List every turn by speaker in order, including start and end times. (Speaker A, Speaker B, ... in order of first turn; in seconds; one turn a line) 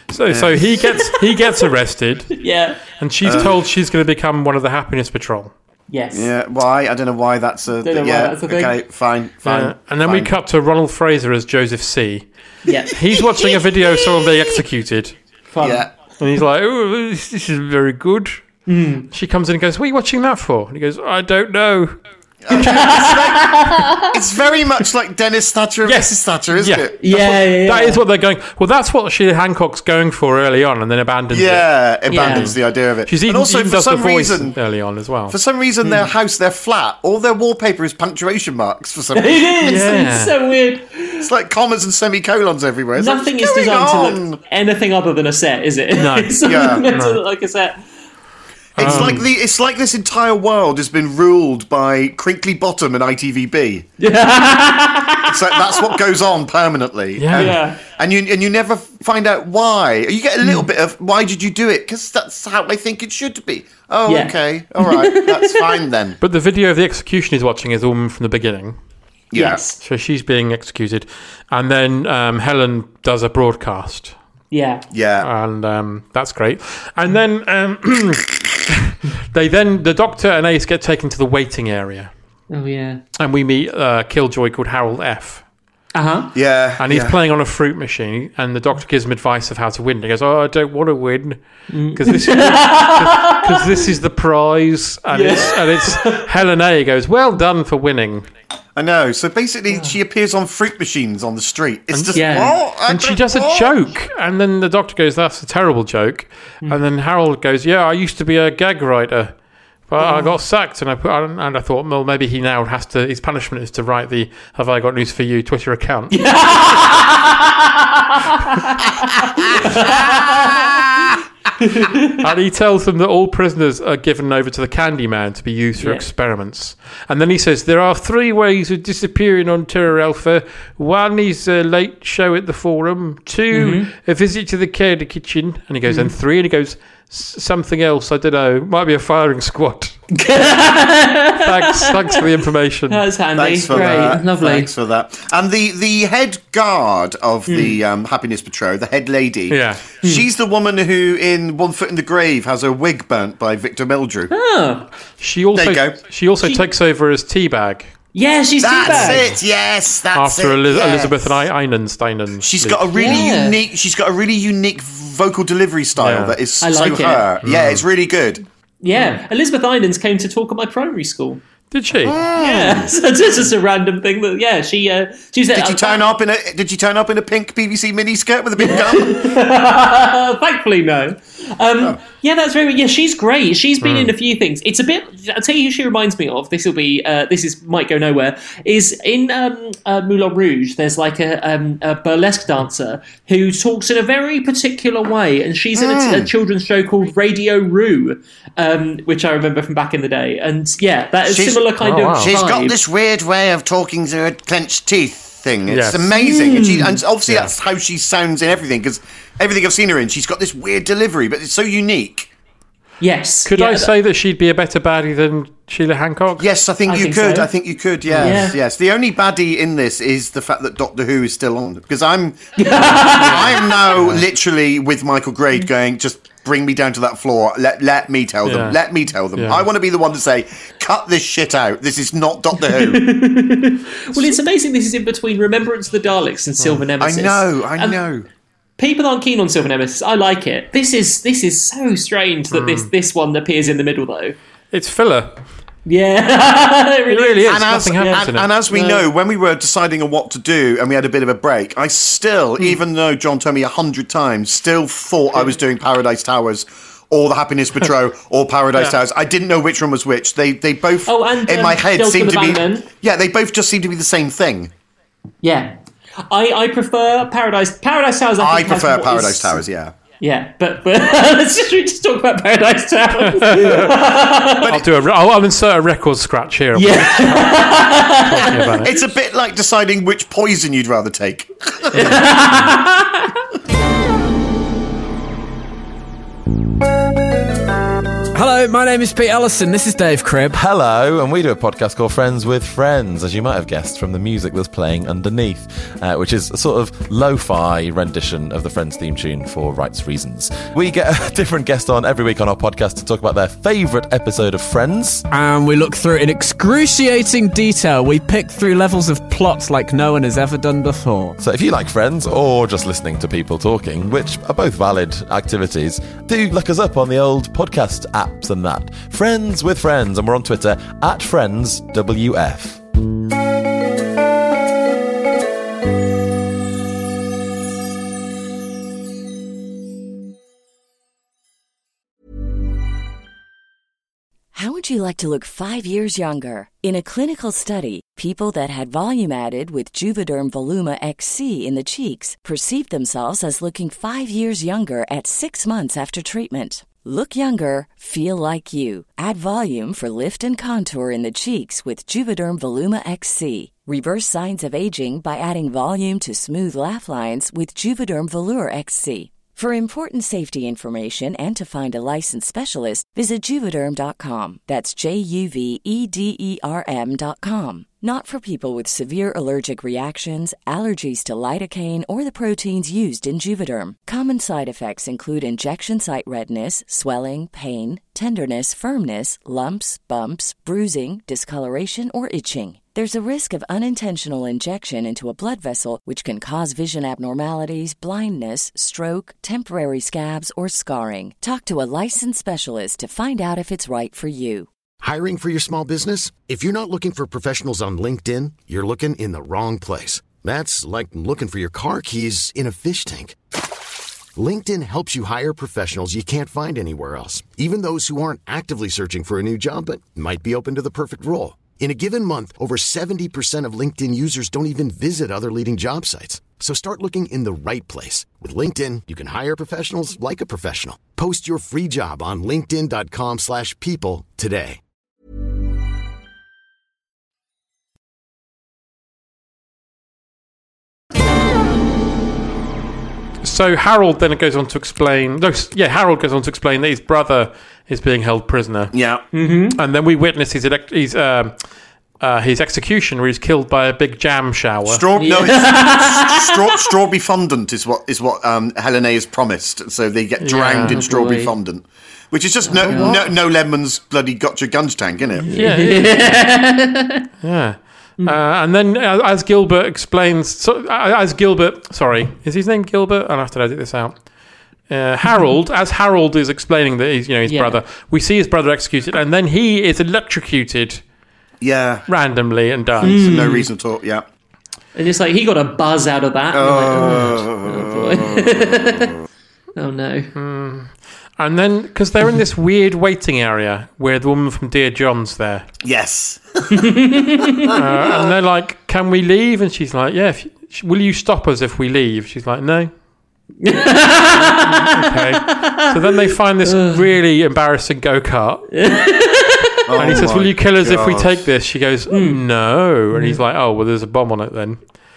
Speaker A: 0.1-5.5
Speaker B: 0.3-0.7
Speaker C: 0.8-1.2
Speaker C: 2.4-2.8
Speaker B: 3.2-3.6
Speaker C: 5.9-6.3
Speaker B: 6.1-10.3
Speaker C: 7.8-8.8
Speaker A: 9.4-12.3
Speaker C: 12.7-12.9
Speaker A: 12.9-15.1
Speaker C: 15.5-15.9
Speaker B: 15.6-15.9
Speaker A: 16.2-18.4
Speaker C: 18.7-19.1
Speaker A: 19.1-22.0
Speaker B: 22.4-27.0
Speaker C: 22.5-24.1
Speaker A: 25.9-35.4
Speaker C: 27.0-28.0
Speaker B: 31.3-34.6
Speaker C: 32.1-32.5
Speaker B: 35.3-39.5
Speaker C: 35.8-36.1
Speaker C: 39.1-41.3
Speaker A: 39.6-40.4
Speaker B: 41.2-44.4
Speaker C: 43.0-47.8
Speaker A: 46.0-47.2
Speaker B: 46.4-46.9
Speaker B: 48.8-53.9
Speaker A: 48.8-49.3
Speaker C: 48.8-49.2
Speaker C: 54.0-55.8
Speaker B: 55.3-66.2
Speaker A: 57.2-57.6
Speaker C: 57.4-57.8
Speaker C: 64.1-65.8
Speaker A: 66.2-68.8
Speaker B: 69.3-69.6
Speaker C: 69.3-69.8
Speaker A: 69.8-74.2
Speaker C: 74.5-74.8
Speaker B: 74.9-75.3
Speaker A: 75.2-82.1
Speaker C: 82.5-83.0
Speaker A: 83.2-85.4
Speaker C: 85.9-86.3
Speaker B: 86.3-87.2
Speaker A: 86.8-98.3
Speaker C: 91.7-93.9
Speaker C: 95.1-96.2
Speaker B: 98.8-103.8
Speaker C: 99.7-100.0
Speaker A: 101.9-109.3
Speaker C: 102.1-102.5
Speaker A: 109.9-116.8
Speaker C: 110.0-110.3
Speaker C: 116.1-122.2
Speaker A: 122.2-140.0
Speaker C: 133.5-133.9
Speaker C: 135.9-136.1
Speaker C: 140.1-142.2
Speaker A: 141.4-143.1
Speaker C: 142.9-144.7
Speaker B: 143.4-154.3
Speaker A: 143.7-144.1
Speaker C: 147.5-147.8
Speaker A: 149.5-149.9
Speaker C: 154.3-154.9
Speaker A: 155.2-157.9
Speaker B: 155.5-156.0
Speaker C: 158.1-159.3
Speaker B: 158.6-161.4
Speaker A: 158.9-159.2
Speaker A: 160.1-163.2
Speaker B: 162.4-168.4
Speaker C: 163.0-163.6
Speaker A: 166.0-166.4
Speaker C: 166.6-167.3
Speaker A: 167.4-167.8
Speaker C: 168.8-171.4
Speaker A: 171.7-172.2
Speaker B: 172.0-172.9
Speaker C: 172.3-176.0
Speaker B: 175.5-179.3
Speaker C: 178.6-202.8
Speaker A: 183.8-184.1
Speaker B: 195.8-196.3
Speaker B: 201.3-212.3
Speaker A: 201.8-202.3
Speaker A: 205.7-206.1
Speaker C: 206.2-207.0
Speaker C: 213.0-213.9
Speaker A: 213.5-216.5
Speaker B: 216.4-233.1
Speaker C: 216.9-217.5
Speaker A: 218.1-218.5
Speaker C: 218.2-218.6
Speaker C: 222.6-223.7
Speaker A: 222.8-224.2
Speaker A: 228.4-228.8
Speaker A: 229.3-229.7
Speaker C: 232.6-238.0
Speaker B: 237.0-238.3
Speaker C: 238.8-244.4
Speaker A: 242.5-242.9
Speaker A: 244.7-245.4
Speaker C: 245.9-249.1
Speaker A: 247.1-248.5
Speaker B: 247.5-264.7
Speaker C: 261.1-262.9
Speaker C: 265.4-269.6
Speaker B: 268.4-269.9
Speaker C: 270.2-274.7
Speaker A: 273.2-274.0
Speaker B: 274.6-274.9
Speaker A: 274.6-278.9
Speaker C: 276.8-278.8
Speaker B: 278.8-282.2
Speaker A: 281.9-282.8
Speaker C: 281.9-283.4
Speaker D: 288.3-290.6
Speaker E: 290.5-305.2
Speaker D: 305.3-311.4
Speaker E: 311.4-322.8
Speaker F: 334.5-394.7
Speaker G: 395.0-403.4
Speaker G: 404.4-424.8
Speaker A: 433.4-438.9
Speaker B: 438.9-439.2
Speaker C: 439.3-439.8
Speaker A: 439.8-441.5
Speaker A: 442.2-445.1
Speaker B: 444.9-455.5
Speaker C: 445.2-446.8
Speaker A: 450.4-451.0
Speaker C: 450.8-451.5
Speaker C: 452.7-453.2
Speaker A: 452.9-453.2
Speaker A: 455.4-456.4
Speaker C: 455.5-457.3
Speaker A: 457.4-464.2
Speaker A: 464.9-471.0
Speaker C: 467.5-467.8
Speaker B: 471.6-472.1
Speaker A: 472.1-473.2
Speaker B: 473.0-474.3
Speaker C: 473.0-473.7
Speaker C: 475.0-479.2
Speaker B: 476.5-479.1
Speaker C: 479.8-480.3
Speaker A: 480.4-485.7
Speaker B: 485.8-488.3
Speaker C: 486.8-487.7
Speaker A: 487.7-492.9
Speaker C: 493.6-495.9
Speaker A: 494.3-498.7
Speaker C: 496.7-497.0
Speaker C: 498.7-499.8
Speaker B: 499.9-501.3
Speaker A: 500.0-504.8
Speaker C: 502.1-502.4
Speaker C: 503.1-503.4